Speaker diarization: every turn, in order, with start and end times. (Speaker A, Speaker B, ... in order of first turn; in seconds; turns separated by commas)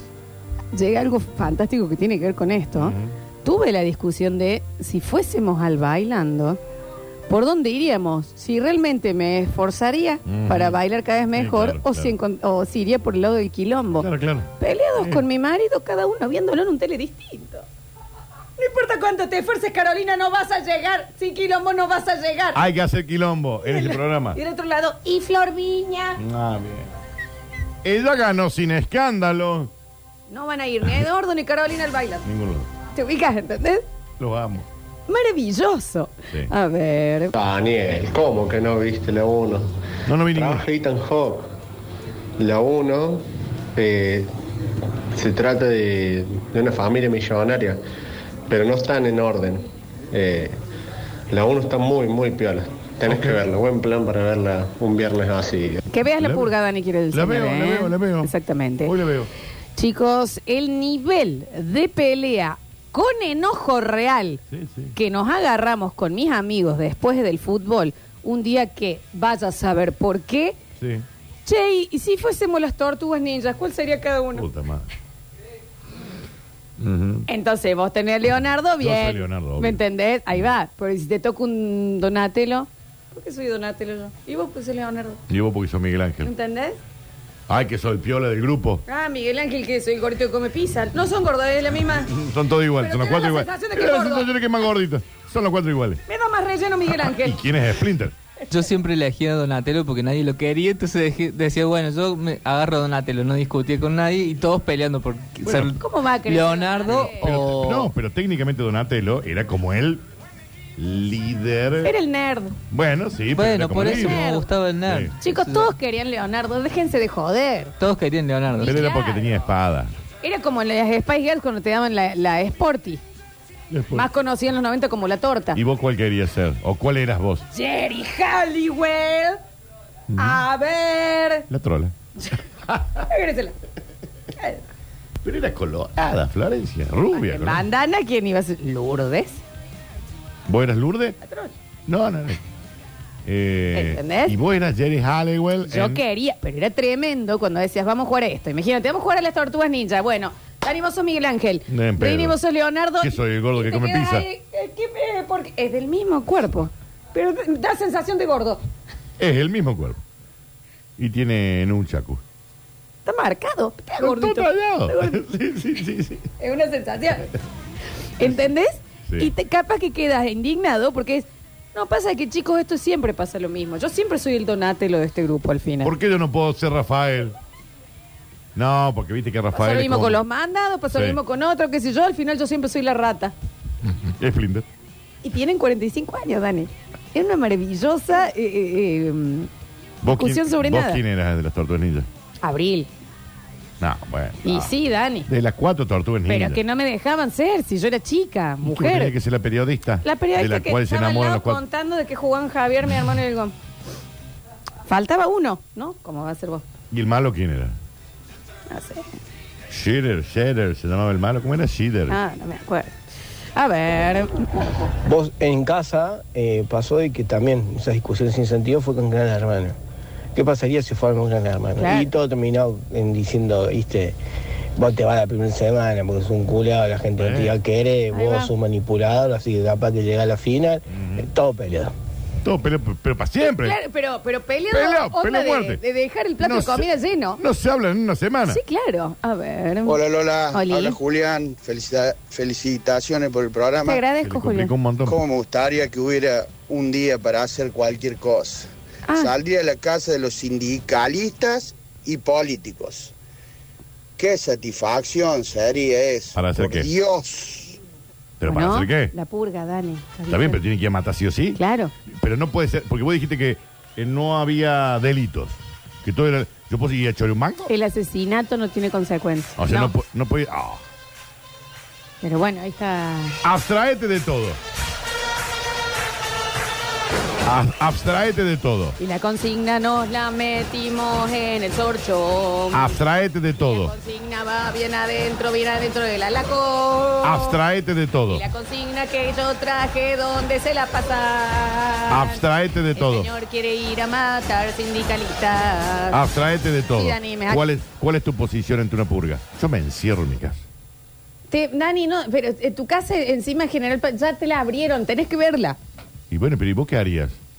Speaker A: 0.7-6.6, Speaker B: 2.8-3.1, Speaker A: 7.3-17.7, Speaker B: 10.3-10.8, Speaker B: 11.3-12.2, Speaker B: 14.0-15.2, Speaker A: 18.6-22.6, Speaker B: 22.6-24.4, Speaker A: 23.6-26.2, Speaker B: 26.2-26.9, Speaker B: 27.8-29.7, Speaker A: 30.3-32.3, Speaker B: 32.2-32.7, Speaker A: 32.9-33.8, Speaker B: 34.2-34.7, Speaker A: 35.1-37.4, Speaker C: 37.4-39.7, Speaker B: 40.1-40.6, Speaker C: 40.3-41.5, Speaker C: 42.4-43.2, Speaker C: 43.8-44.3, Speaker C: 45.1-47.8, Speaker C: 48.5-50.6, Speaker C: 51.3-55.8, Speaker B: 53.1-53.4, Speaker A: 55.9-58.9, Speaker B: 56.2-56.5, Speaker B: 57.1-58.3, Speaker B: 58.8-59.3, Speaker A: 59.8-64.4, Speaker B: 64.5-65.0, Speaker A: 65.0-70.6, Speaker B: 70.8-71.0, Speaker A: 71.5-74.5, Speaker B: 74.3-74.9, Speaker B: 76.8-77.3, Speaker A: 77.3-85.2, Speaker B: 78.8-79.8, Speaker B: 85.3-86.3, Speaker A: 86.2-86.8, Speaker B: 87.5-88.8, Speaker A: 88.9-92.2, Speaker B: 92.1-96.0, Speaker A: 92.8-94.3, Speaker A: 96.1-97.4, Speaker B: 96.9-98.2, Speaker D: 98.5-107.9, Speaker B: 105.5-105.7, Speaker A: 105.7-107.5, Speaker B: 107.2-110.0, Speaker B: 110.8-112.0, Speaker A: 111.8-112.6, Speaker B: 112.7-114.2, Speaker D: 113.3-115.7, Speaker A: 113.8-114.5, Speaker B: 114.9-115.1, Speaker A: 115.2-117.8, Speaker D: 117.8-118.9, Speaker A: 118.6-119.4, Speaker B: 118.6-119.9, Speaker A: 120.2-123.0, Speaker B: 123.7-124.1, Speaker A: 123.9-125.6, Speaker B: 125.5-127.5, Speaker A: 127.5-129.4, Speaker B: 130.1-130.4, Speaker A: 130.2-131.5, Speaker B: 131.5-131.9, Speaker B: 132.7-133.1, Speaker A: 133.0-133.6, Speaker A: 134.4-134.6, Speaker B: 135.2-137.7, Speaker A: 137.1-139.4, Speaker B: 140.5-141.2, Speaker A: 141.2-141.5, Speaker B: 141.9-142.4, Speaker B: 143.2-146.0, Speaker A: 143.7-144.4, Speaker A: 145.7-158.6, Speaker B: 151.7-152.4, Speaker B: 153.0-154.3, Speaker B: 159.2-160.0, Speaker B: 161.0-162.2, Speaker A: 163.1-165.2, Speaker B: 164.0-166.3, Speaker A: 166.4-167.3, Speaker A: 168.2-175.9, Speaker B: 169.1-169.3, Speaker B: 175.8-177.4, Speaker B: 178.6-180.2, Speaker A: 179.5-183.3, Speaker B: 180.9-181.2, Speaker B: 184.1-184.7, Speaker A: 185.2-189.5, Speaker B: 190.0-192.1, Speaker A: 190.1-191.0, Speaker A: 192.4-192.9, Speaker B: 193.8-194.7, Speaker A: 194.4-195.3, Speaker B: 195.3-196.6, Speaker A: 196.3-199.1, Speaker B: 198.6-201.6, Speaker A: 200.0-203.5, Speaker A: 204.9-206.6, Speaker B: 206.9-207.8, Speaker A: 208.7-209.1, Speaker B: 209.7-212.2, Speaker A: 212.1-213.0, Speaker A: 213.6-214.9, Speaker E: 215.1-219.8, Speaker E: 220.3-224.2, Speaker A: 221.8-222.1, Speaker E: 224.8-231.9, Speaker B: 227.2-227.6, Speaker A: 228.1-228.5, Speaker B: 230.9-231.3, Speaker B: 232.4-233.8, Speaker A: 233.4-237.4, Speaker B: 234.7-235.8, Speaker B: 236.4-238.6, Speaker A: 238.5-240.0, Speaker F: 239.8-244.1, Speaker A: 240.5-241.0, Speaker A: 243.8-244.7, Speaker B: 244.2-245.2, Speaker F: 245.1-253.1, Speaker A: 249.1-249.3, Speaker F: 254.2-257.8, Speaker B: 256.4-256.9, Speaker B: 258.4-259.1, Speaker A: 258.4-260.6, Speaker B: 260.3-267.7, Speaker A: 261.6-261.9, Speaker A: 267.7-269.9, Speaker B: 269.6-270.8, Speaker A: 272.2-273.4, Speaker B: 273.4-274.6, Speaker B: 277.4-279.0, Speaker A: 279.0-282.9, Speaker B: 282.7-283.9, Speaker A: 283.6-287.6, Speaker B: 287.2-288.4, Speaker A: 288.3-296.2, Speaker B: 292.1-293.3, Speaker B: 296.1-300.6, Speaker A: 296.9-297.6, Speaker A: 301.5-305.8, Speaker B: 306.3-307.4